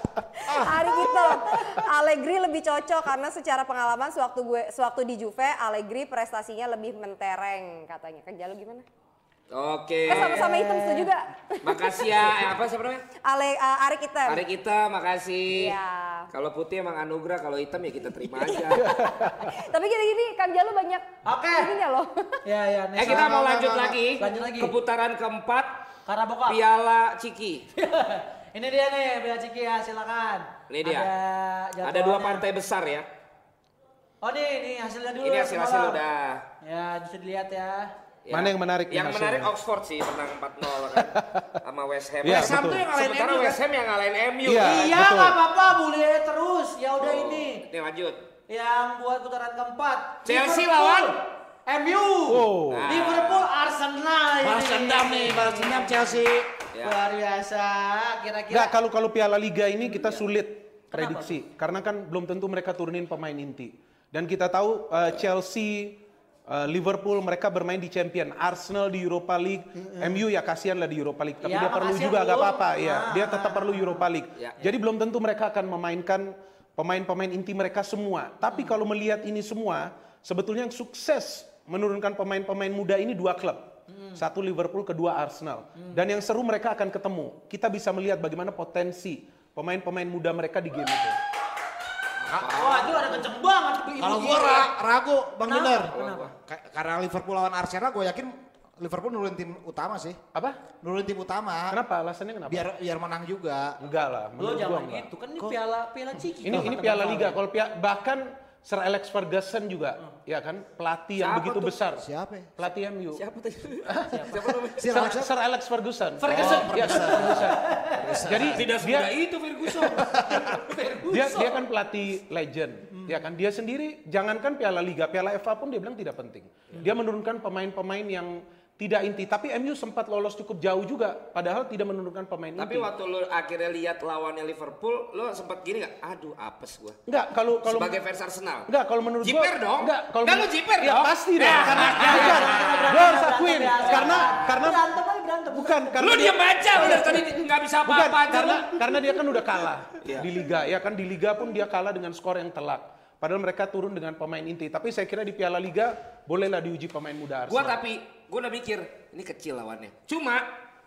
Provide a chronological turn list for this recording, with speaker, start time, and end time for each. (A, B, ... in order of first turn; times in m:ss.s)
0:00.4-0:08.8 A
0:00.5-0:00.9 B
0:09.5-0:10.5 C
0:10.1-0:12.3 A
0:10.1-0:11.1 D
0:11.6-0:13.0 C
0:13.2-0:14.4 A
0:14.3-0:15.8 C
0:15.5-0:16.3 A
0:16.3-0:19.0 C
0:19.0-0:19.5 E
0:19.5-0:22.3 A
0:21.2-0:21.7 D
0:22.4-0:23.4 D
0:23.0-0:25.8 C
0:23.0-0:24.0 B
0:24.2-0:24.7 D
0:26.1-0:26.6 D
0:26.5-0:27.7 C
0:27.8-0:32.4 D
0:30.7-0:31.1 C
0:31.8-0:33.1 C
0:34.2-0:36.0 D
0:35.2-0:36.4 C
0:36.6-0:37.9 D
0:38.3-0:44.9 C
0:38.3-0:39.5 E
0:40.9-0:41.5 E
0:42.2-0:42.9 E
0:42.2-0:43.6 B
0:44.4-0:45.4 E
0:44.6-0:47.6 D
0:47.0-0:48.2 C
0:48.5-0:56.2 D
0:50.2-0:51.2 C
0:52.3-0:52.9 E
0:52.7-0:53.5 C
0:54.4-0:56.5 B
0:56.7-0:57.0 C
0:56.8-0:58.7 D
0:58.5-1:31.2 E
1:00.9-1:01.4 D
1:09.8-1:10.2 D
1:11.4-1:14.1 D
1:23.9-1:24.2 D
1:32.2-1:33.2 C
1:32.3-1:32.6 B
1:32.4-1:34.7 D
1:34.0-1:35.9 B
1:35.5-1:36.3 D
1:35.9-1:36.3 C
1:36.5-1:40.2 B
1:40.3-1:40.6 E
1:40.8-1:41.8 B
1:41.7-1:42.7 E
1:42.5-1:43.8 B
1:43.8-1:45.1 E
1:44.4-1:47.4 D
1:46.4-1:52.0 E
1:51.2-1:51.8 C
1:52.0-1:52.5 B
1:52.6-1:53.2 E
1:53.2-1:55.2 C
1:53.9-1:54.2 E
1:54.1-1:54.4 D
1:54.8-1:55.3 B
1:54.8-1:57.6 E
1:56.2-1:58.2 D
1:56.3-1:58.7 B
1:58.2-1:59.1 E
1:58.5-2:00.1 C
2:00.3-2:01.6 D
2:01.1-2:12.9 E
2:12.6-2:17.0 C
2:17.1-2:18.0 E
2:17.6-2:18.7 C
2:18.7-2:24.8 E
2:19.2-2:22.9 C
2:21.5-2:25.9 D
2:23.9-2:24.3 C
2:25.5-2:26.5 E
2:26.0-2:28.8 C
2:26.8-2:27.4 D
2:27.8-2:37.8 E
2:30.0-2:30.3 C
2:37.5-2:40.5 C